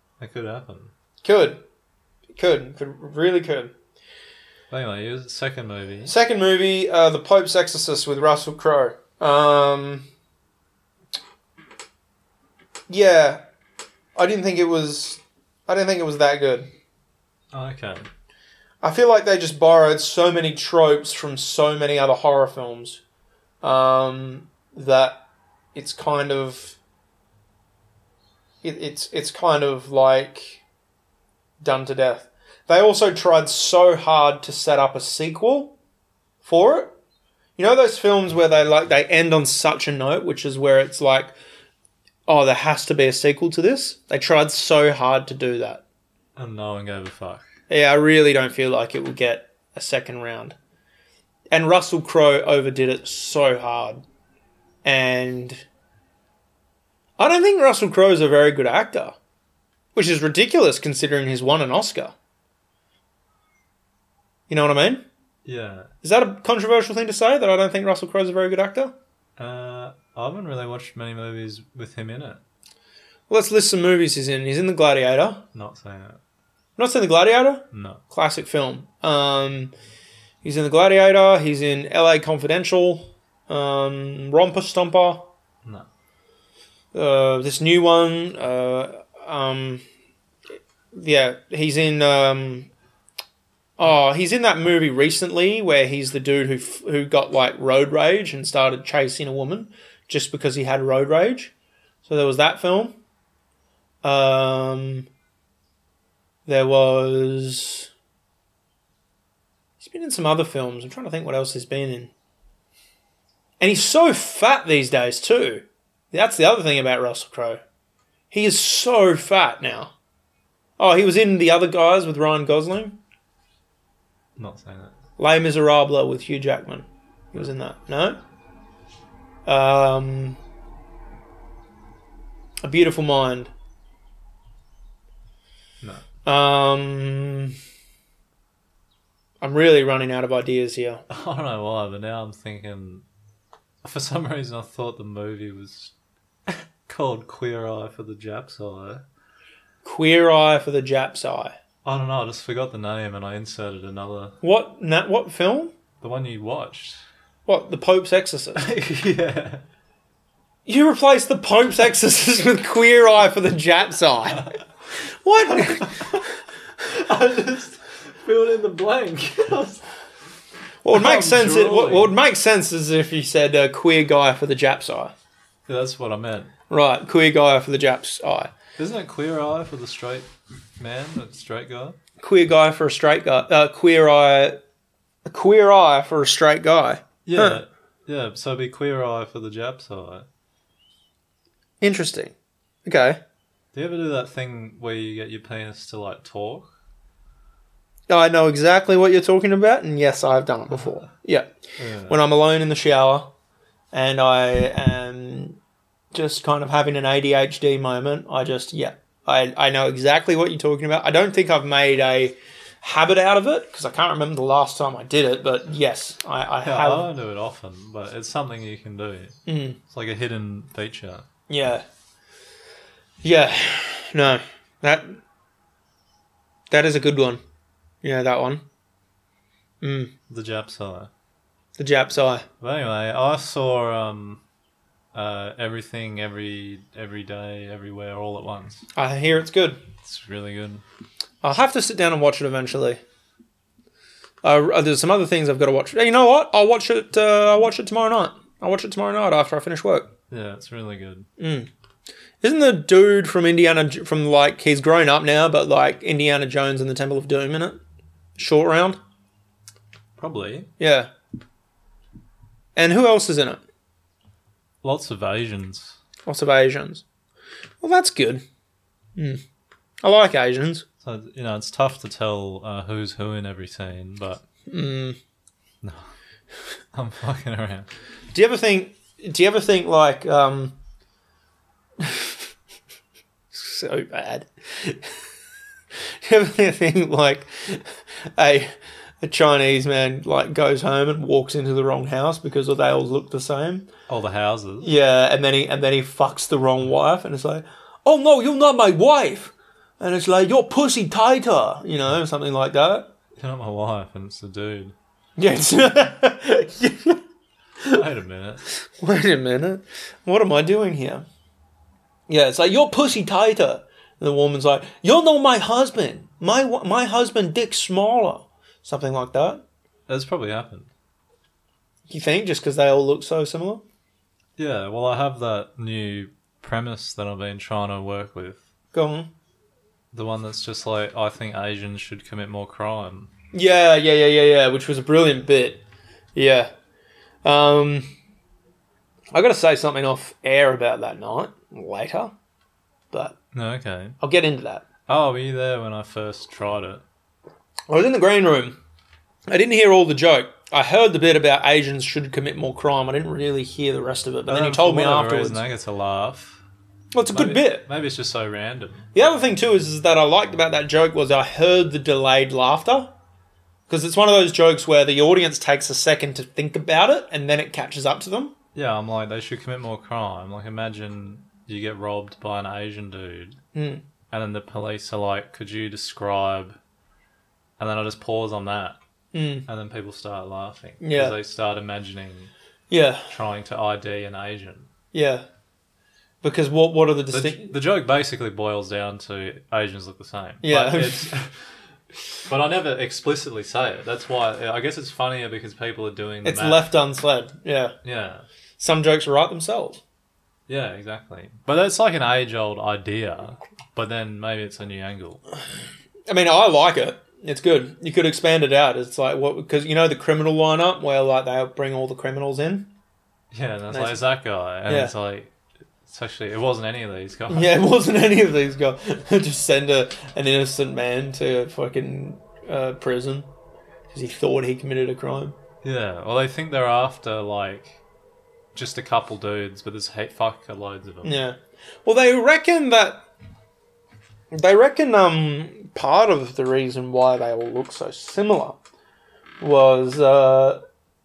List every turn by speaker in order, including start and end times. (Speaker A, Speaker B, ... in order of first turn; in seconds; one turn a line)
Speaker A: 0.2-0.9
Speaker B: 1.2-1.6
Speaker B: 2.3-3.7
Speaker A: 4.7-6.1
Speaker B: 6.0-10.1
Speaker B: 12.9-13.4
Speaker B: 14.2-16.7
Speaker A: 17.5-18.1
Speaker B: 18.8-23.0
Speaker B: 23.6-25.2
Speaker B: 25.7-26.8
Speaker B: 28.6-30.6
Speaker B: 31.6-35.7
Speaker B: 36.4-36.9
Speaker B: 37.6-41.3
Speaker B: 42.3-45.8
Speaker A: 46.4-47.4
Speaker B: 47.7-50.5
Speaker B: 51.5-54.0
Speaker B: 54.8-55.6
Speaker B: 57.2-59.1
Speaker B: 59.9-62.1
Speaker B: 64.5-65.0
Speaker A: 65.4-65.9
Speaker B: 66.0-68.9
Speaker A: 69.4-72.4
Speaker B: 73.3-75.4
Speaker A: 75.5-76.2
Speaker B: 76.8-79.7
Speaker A: 77.7-78.0
Speaker B: 80.4-85.3
Speaker B: 86.9-89.8
Speaker B: 90.9-92.7
Speaker B: 93.8-101.5
Speaker B: 102.0-103.0
Speaker B: 104.0-105.1
Speaker B: 106.5-107.9
Speaker B: 109.8-112.1
Speaker B: 113.6-117.6
Speaker B: 118.3-119.9
Speaker B: 120.8-123.0
Speaker A: 124.3-125.0
Speaker B: 125.2-128.2
Speaker B: 129.4-130.4
Speaker B: 132.6-133.5
Speaker B: 136.2-137.5
Speaker B: 139.4-141.0
Speaker A: 141.1-143.0
Speaker A: 143.8-145.9
Speaker A: 146.4-149.0
Speaker B: 149.8-151.5
Speaker A: 151.8-154.4
Speaker B: 154.4-155.7
Speaker A: 156.0-157.0
Speaker B: 157.4-158.7
Speaker A: 158.6-159.6
Speaker B: 160.7-166.2
Speaker A: 165.5-166.3
Speaker A: 166.8-169.8
Speaker B: 170.8-175.1
Speaker A: 170.9-172.1
Speaker A: 175.7-176.5
Speaker B: 176.7-178.5
Speaker A: 178.8-182.0
Speaker B: 182.2-184.6
Speaker B: 185.2-187.6
Speaker A: 187.2-190.3
Speaker B: 191.8-192.3
Speaker B: 192.8-193.2
Speaker A: 193.7-196.7
Speaker B: 198.1-201.5
Speaker A: 201.8-202.2
Speaker B: 202.1-203.3
Speaker B: 203.9-205.6
Speaker B: 206.1-217.1
Speaker A: 216.6-221.3
Speaker B: 219.4-219.8
Speaker B: 221.5-221.8
Speaker B: 223.2-225.2
Speaker B: 226.7-227.4
Speaker B: 228.0-228.6
Speaker B: 229.8-230.1
Speaker A: 230.3-231.1
Speaker B: 231.8-232.4
Speaker A: 232.6-234.4
Speaker A: 235.1-238.8
Speaker B: 238.9-239.8
Speaker A: 240.0-240.8
Speaker B: 241.4-243.0
Speaker B: 244.4-250.1
Speaker A: 250.3-251.3
Speaker B: 251.4-251.7
Speaker B: 252.4-257.8
Speaker B: 258.4-259.0
Speaker A: 260.2-260.7
Speaker B: 260.8-261.1
Speaker B: 262.8-263.6
Speaker A: 264.8-266.0
Speaker B: 266.2-267.0
Speaker B: 267.8-268.4
Speaker B: 269.1-269.4
Speaker B: 270.0-270.8
Speaker A: 271.0-274.4
Speaker B: 274.7-275.2
Speaker A: 275.8-276.1
Speaker A: 276.9-277.9
Speaker B: 278.3-280.8
Speaker B: 282.0-282.4
Speaker B: 283.5-285.1
Speaker B: 286.2-293.9
Speaker A: 294.1-294.9
Speaker B: 294.8-303.1
Speaker A: 303.4-304.9
Speaker B: 305.4-307.2
Speaker A: 307.9-308.6
Speaker B: 308.7-311.2
Speaker B: 312.3-319.6
Speaker A: 320.1-320.9
Speaker B: 322.1-323.8
Speaker A: 324.6-328.6
Speaker B: 328.9-329.3
Speaker A: 330.1-333.3
Speaker B: 333.5-335.8
Speaker B: 336.3-336.7
Speaker B: 337.4-338.1
Speaker B: 339.3-342.3
Speaker B: 343.1-343.4
Speaker A: 343.5-344.2
Speaker B: 344.2-344.9
Speaker A: 345.1-347.0
Speaker B: 347.9-348.8
Speaker B: 349.5-355.6
Speaker A: 354.5-356.6
Speaker B: 357.1-357.8
Speaker A: 357.3-359.1
Speaker B: 359.1-363.1
Speaker B: 363.9-368.5
Speaker A: 368.7-373.6
Speaker B: 373.7-374.0
Speaker A: 374.3-376.8
Speaker A: 377.8-379.0
Speaker B: 379.3-379.7
Speaker A: 379.7-382.5
Speaker B: 381.0-381.4
Speaker B: 382.9-383.3
Speaker A: 383.3-384.9
Speaker B: 385.1-385.4
Speaker B: 386.4-387.7
Speaker A: 387.3-391.6
Speaker B: 390.6-391.3
Speaker A: 392.5-396.9
Speaker B: 396.4-397.9
Speaker A: 398.0-398.4
Speaker B: 398.8-400.0
Speaker A: 400.7-405.4
Speaker B: 406.3-412.9
Speaker A: 413.5-415.5
Speaker B: 413.9-414.2
Speaker B: 414.9-415.1
Speaker A: 416.1-417.7
Speaker B: 417.5-423.5
Speaker B: 424.1-425.5
Speaker A: 425.8-428.0
Speaker A: 428.7-431.4
Speaker B: 431.2-433.2
Speaker B: 434.5-438.8
Speaker B: 439.6-440.8